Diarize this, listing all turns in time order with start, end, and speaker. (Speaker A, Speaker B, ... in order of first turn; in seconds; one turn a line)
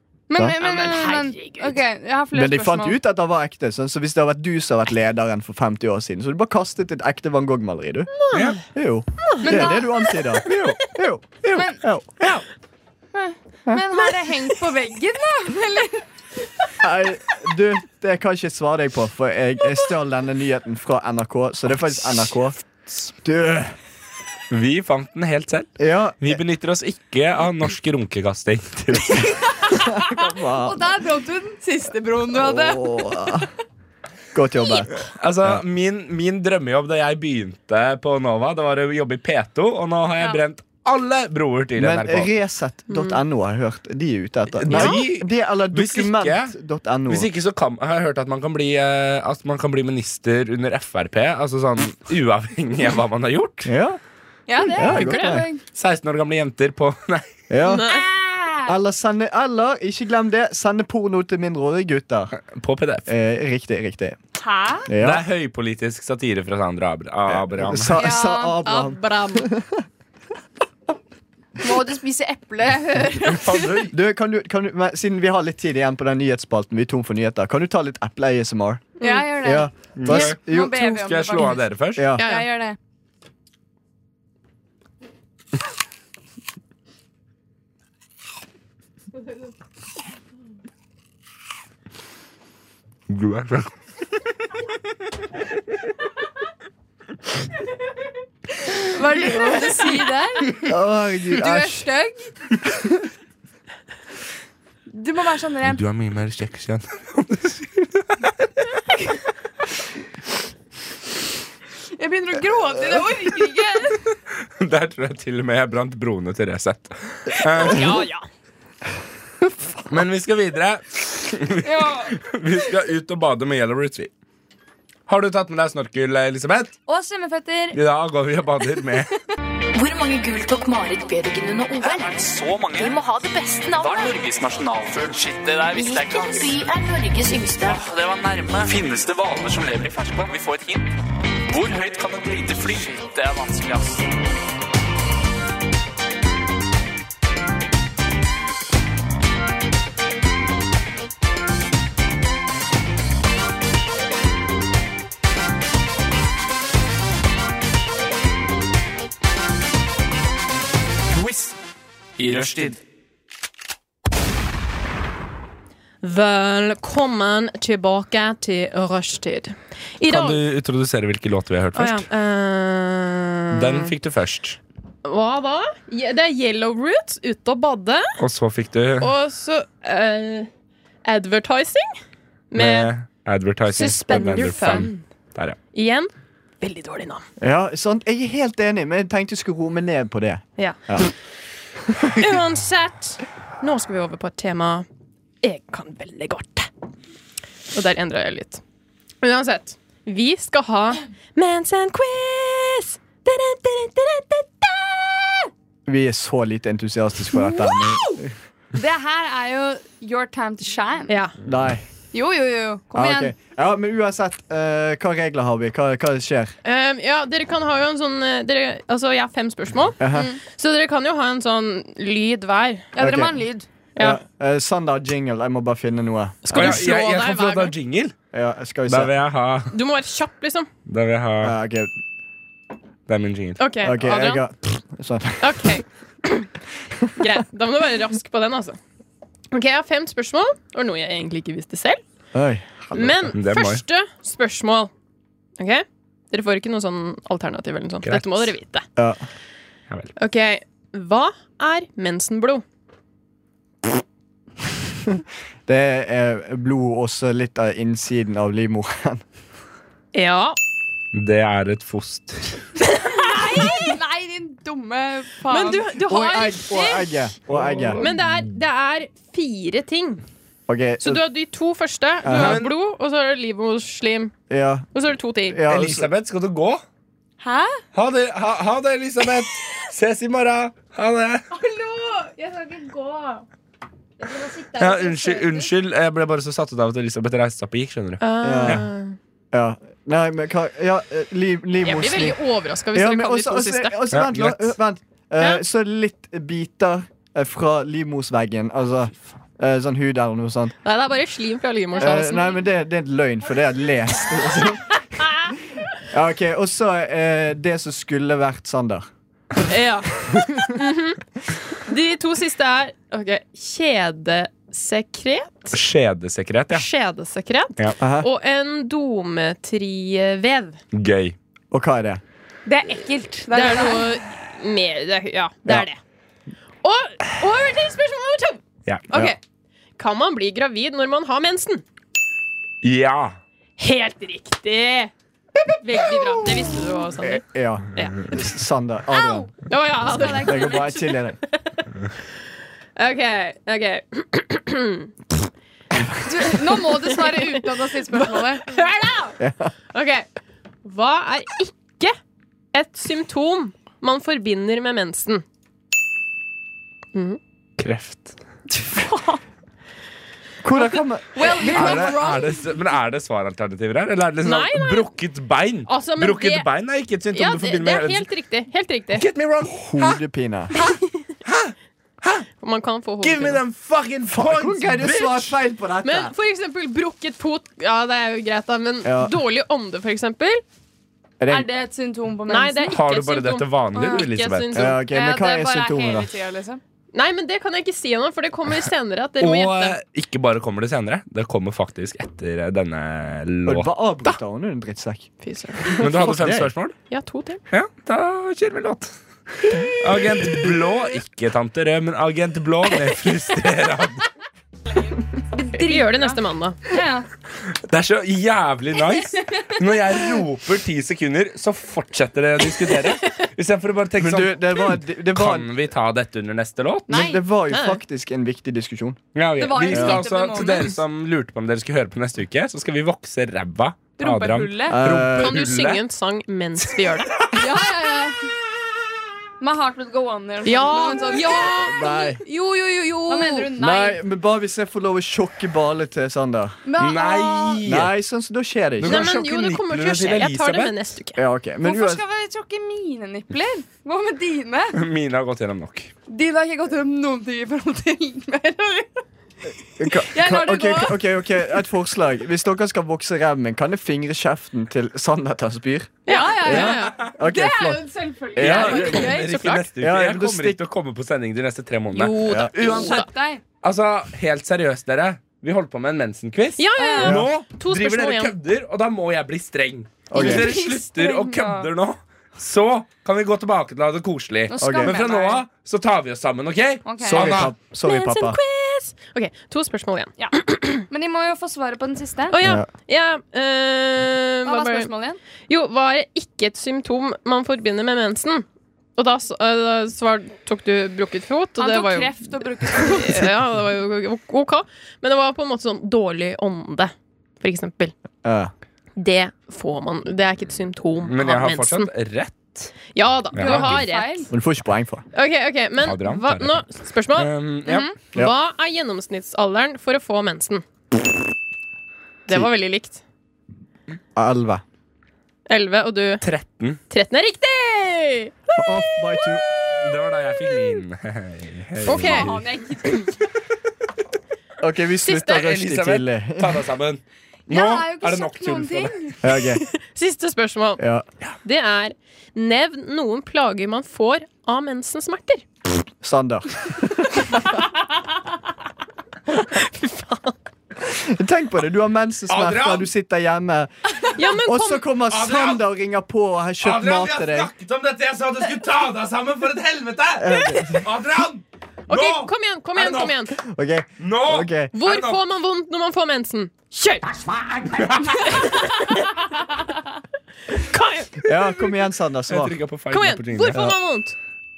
Speaker A: 0.3-3.0
Speaker B: 0.6-1.8
Speaker C: 2.3-12.2
Speaker B: 8.2-8.6
Speaker D: 8.3-8.6
Speaker B: 9.2-9.9
Speaker A: 9.4-10.2
Speaker D: 10.5-10.8
Speaker A: 11.5-11.8
Speaker A: 13.1-16.0
Speaker C: 16.8-22.6
Speaker C: 23.1-23.7
Speaker D: 24.5-29.4
Speaker C: 25.8-26.4
Speaker A: 29.6-33.5
Speaker C: 29.7-30.9
Speaker C: 32.3-33.5
Speaker C: 34.3-35.6
Speaker D: 35.1-42.3
Speaker C: 41.8-47.3
Speaker B: 42.9-43.2
Speaker D: 44.6-46.5
Speaker B: 44.7-45.0
Speaker D: 47.1-53.7
Speaker C: 53.6-54.0
Speaker A: 54.5-55.6
Speaker C: 54.7-55.5
Speaker B: 54.8-55.4
Speaker D: 55.7-57.3
Speaker C: 57.5-57.9
Speaker B: 57.6-58.1
Speaker A: 57.9-58.8
Speaker C: 58.6-62.3
Speaker D: 62.4-63.1
Speaker C: 63.1-64.2
Speaker A: 64.4-64.9
Speaker C: 64.8-65.2
Speaker D: 65.0-68.0
Speaker C: 67.3-69.8
Speaker A: 68.0-68.6
Speaker B: 68.6-69.5
Speaker A: 71.6-73.7
Speaker D: 73.2-73.9
Speaker C: 73.9-78.8
Speaker A: 79.0-81.6
Speaker B: 79.0-79.3
Speaker C: 79.4-80.8
Speaker D: 80.0-82.1
Speaker C: 81.9-82.3
Speaker B: 82.2-82.5
Speaker A: 82.2-82.8
Speaker D: 93.1-93.7
Speaker A: 98.7-100.7
Speaker C: 100.6-101.8
Speaker A: 101.3-102.3
Speaker A: 104.9-105.8
Speaker D: 105.6-108.3
Speaker A: 112.0-114.0
Speaker D: 114.6-118.0
Speaker B: 117.5-118.2
Speaker D: 119.8-124.1
Speaker A: 121.6-122.1
Speaker D: 125.1-126.7
Speaker A: 126.9-127.8
Speaker D: 127.7-129.1
Speaker E: 129.7-134.3
Speaker F: 132.0-132.8
Speaker F: 133.8-136.4
Speaker E: 135.6-137.9
Speaker F: 137.7-140.9
Speaker F: 141.5-144.1
Speaker F: 161.2-161.5
Speaker F: 162.2-162.7
Speaker B: 166.0-170.4
Speaker D: 170.1-172.1
Speaker B: 171.7-173.9
Speaker D: 173.5-174.6
Speaker B: 175.0-178.1
Speaker D: 178.2-179.1
Speaker B: 179.0-180.5
Speaker B: 181.0-182.0
Speaker B: 182.5-182.9
Speaker D: 182.5-185.6
Speaker B: 183.7-185.0
Speaker B: 185.7-187.2
Speaker C: 187.4-191.1
Speaker B: 192.1-194.9
Speaker B: 195.4-196.7
Speaker B: 197.7-198.6
Speaker B: 199.2-205.5
Speaker C: 205.8-208.3
Speaker B: 207.3-208.1
Speaker A: 208.7-211.2
Speaker B: 211.1-211.3
Speaker C: 211.4-211.8
Speaker A: 212.1-213.3
Speaker C: 212.9-216.6
Speaker B: 216.6-222.9
Speaker C: 220.0-220.3
Speaker C: 222.9-223.4
Speaker A: 222.9-223.7
Speaker B: 223.9-224.2
Speaker C: 224.0-226.8
Speaker B: 226.4-227.7
Speaker D: 226.5-228.1
Speaker C: 228.3-229.1
Speaker D: 228.9-229.7
Speaker B: 229.7-230.7
Speaker D: 230.9-231.5
Speaker C: 231.4-231.9
Speaker D: 233.1-233.6
Speaker B: 233.6-234.4
Speaker C: 233.8-235.7
Speaker B: 235.4-236.5
Speaker B: 237.2-238.8
Speaker B: 239.5-242.0
Speaker C: 242.3-243.3
Speaker B: 242.9-244.9
Speaker D: 243.3-243.8
Speaker B: 245.6-248.8
Speaker D: 248.0-248.5
Speaker C: 249.0-249.2
Speaker B: 250.2-252.6
Speaker C: 255.2-259.2
Speaker B: 260.1-260.6
Speaker D: 261.1-262.6
Speaker B: 262.9-263.8
Speaker A: 263.1-265.9
Speaker B: 265.5-267.3
Speaker C: 266.1-268.0
Speaker B: 267.9-270.2
Speaker C: 270.7-271.2
Speaker B: 271.0-274.3
Speaker C: 272.2-272.6
Speaker D: 272.3-272.7
Speaker C: 274.5-274.9
Speaker B: 274.9-275.6
Speaker C: 275.5-276.1
Speaker D: 275.7-276.8
Speaker A: 277.4-277.8
Speaker D: 277.9-281.4
Speaker A: 281.5-283.4
Speaker A: 284.2-285.7
Speaker D: 284.8-288.8
Speaker B: 288.2-289.1
Speaker C: 288.4-288.8
Speaker C: 289.5-292.4
Speaker B: 291.8-294.1
Speaker C: 292.9-300.7
Speaker D: 294.1-294.7
Speaker B: 300.8-302.5
Speaker A: 302.0-302.3
Speaker C: 302.0-309.1
Speaker B: 305.2-305.5
Speaker B: 309.7-311.2
Speaker B: 311.7-315.8
Speaker D: 315.7-316.9
Speaker B: 316.7-320.8
Speaker C: 318.0-318.3
Speaker D: 320.9-321.4
Speaker C: 321.7-322.2
Speaker A: 322.6-324.1
Speaker B: 323.5-326.0
Speaker B: 326.8-329.4
Speaker B: 330.0-331.8
Speaker D: 332.8-333.4
Speaker B: 333.8-335.1
Speaker B: 335.8-337.4
Speaker C: 337.2-339.5
Speaker B: 337.9-338.4
Speaker A: 339.1-339.5
Speaker B: 339.7-341.9
Speaker A: 340.0-340.9
Speaker C: 340.3-341.4
Speaker B: 343.0-345.1
Speaker A: 346.2-348.7
Speaker B: 346.6-349.4
Speaker C: 349.4-349.7
Speaker B: 349.9-350.2
Speaker B: 350.8-352.1
Speaker B: 352.7-355.4
Speaker D: 357.8-358.3
Speaker A: 358.7-359.4
Speaker C: 360.6-362.2
Speaker A: 361.4-362.7
Speaker D: 361.7-368.2
Speaker B: 364.4-365.1
Speaker B: 365.9-366.7
Speaker B: 367.3-369.2
Speaker D: 369.1-370.2
Speaker C: 369.8-370.8
Speaker D: 371.4-372.5
Speaker B: 372.6-373.6
Speaker D: 373.2-375.6
Speaker C: 374.3-376.3
Speaker B: 376.0-380.6
Speaker C: 379.0-379.3
Speaker C: 381.4-381.7
Speaker A: 381.5-382.9
Speaker B: 382.5-385.0
Speaker D: 382.9-384.9
Speaker C: 384.7-386.3
Speaker A: 385.1-386.8
Speaker B: 387.1-390.0
Speaker D: 389.4-394.4
Speaker C: 393.6-395.3
Speaker B: 395.4-396.3
Speaker C: 395.9-396.7
Speaker D: 396.0-396.9
Speaker B: 397.1-397.6
Speaker D: 397.7-404.3
Speaker A: 405.4-407.3
Speaker B: 405.7-406.8
Speaker D: 407.9-417.3
Speaker A: 409.1-409.7
Speaker C: 414.2-415.7
Speaker A: 417.1-417.4
Speaker C: 417.1-419.2
Speaker B: 417.7-418.0
Speaker D: 419.3-426.0
Speaker A: 419.6-420.9
Speaker C: 419.9-420.2
Speaker A: 424.2-425.0
Speaker C: 424.9-425.6
Speaker B: 425.4-427.3
Speaker D: 426.8-427.8
Speaker A: 427.5-428.4
Speaker A: 429.6-432.4
Speaker B: 430.6-433.7
Speaker C: 431.6-432.4
Speaker A: 433.3-434.2
Speaker C: 433.7-436.8
Speaker A: 436.8-437.8
Speaker D: 437.0-438.1
Speaker C: 437.9-439.3
Speaker D: 439.0-441.1
Speaker B: 439.0-441.4
Speaker C: 441.4-442.2
Speaker A: 441.8-445.0
Speaker D: 444.9-446.1
Speaker A: 446.3-449.1
Speaker C: 450.0-459.3
Speaker A: 450.1-451.4
Speaker A: 456.2-459.7
Speaker B: 456.3-457.3
Speaker D: 456.7-457.2
Speaker D: 458.6-463.2
Speaker B: 458.7-459.9
Speaker C: 460.0-460.8
Speaker B: 462.1-463.3
Speaker A: 462.8-463.6
Speaker D: 463.8-477.7
Speaker B: 466.8-468.5
Speaker A: 467.0-467.4
Speaker C: 467.2-467.5
Speaker C: 470.3-470.6
Speaker A: 470.3-471.9
Speaker A: 474.7-475.6
Speaker C: 474.8-475.2
Speaker A: 477.0-477.7
Speaker C: 477.2-478.6
Speaker B: 478.0-481.0
Speaker A: 481.1-482.6
Speaker B: 482.5-485.1
Speaker C: 482.6-482.9
Speaker A: 484.6-485.4
Speaker B: 485.7-498.1
Speaker A: 491.8-493.5
Speaker C: 498.4-498.7
Speaker B: 499.2-502.1
Speaker D: 501.2-502.9
Speaker B: 503.1-504.5
Speaker D: 503.5-504.0
Speaker A: 503.6-504.5
Speaker C: 504.5-505.2
Speaker B: 505.3-510.8
Speaker D: 506.0-506.8
Speaker D: 507.4-508.1
Speaker B: 512.5-513.2
Speaker C: 514.3-514.8
Speaker B: 515.7-516.4
Speaker D: 516.4-517.0
Speaker B: 517.1-518.8
Speaker C: 518.7-519.6
Speaker D: 519.9-522.6
Speaker B: 522.0-522.6
Speaker A: 522.1-523.3
Speaker C: 524.8-526.8
Speaker D: 525.2-529.3
Speaker A: 527.7-529.4
Speaker C: 529.4-529.8
Speaker B: 529.8-531.0
Speaker C: 531.0-531.2
Speaker B: 531.6-535.6
Speaker C: 536.2-537.6
Speaker B: 537.5-538.0
Speaker B: 539.5-540.6
Speaker C: 541.0-547.7
Speaker D: 542.5-543.1
Speaker B: 544.3-545.1
Speaker D: 545.3-545.9
Speaker D: 546.8-553.5
Speaker C: 550.4-551.1
Speaker B: 552.1-553.6
Speaker C: 553.6-554.9
Speaker D: 554.2-555.4
Speaker B: 554.9-557.4
Speaker D: 557.6-558.7
Speaker B: 558.4-559.3
Speaker B: 560.7-561.5
Speaker C: 561.4-562.8
Speaker D: 562.5-563.9
Speaker B: 563.1-564.4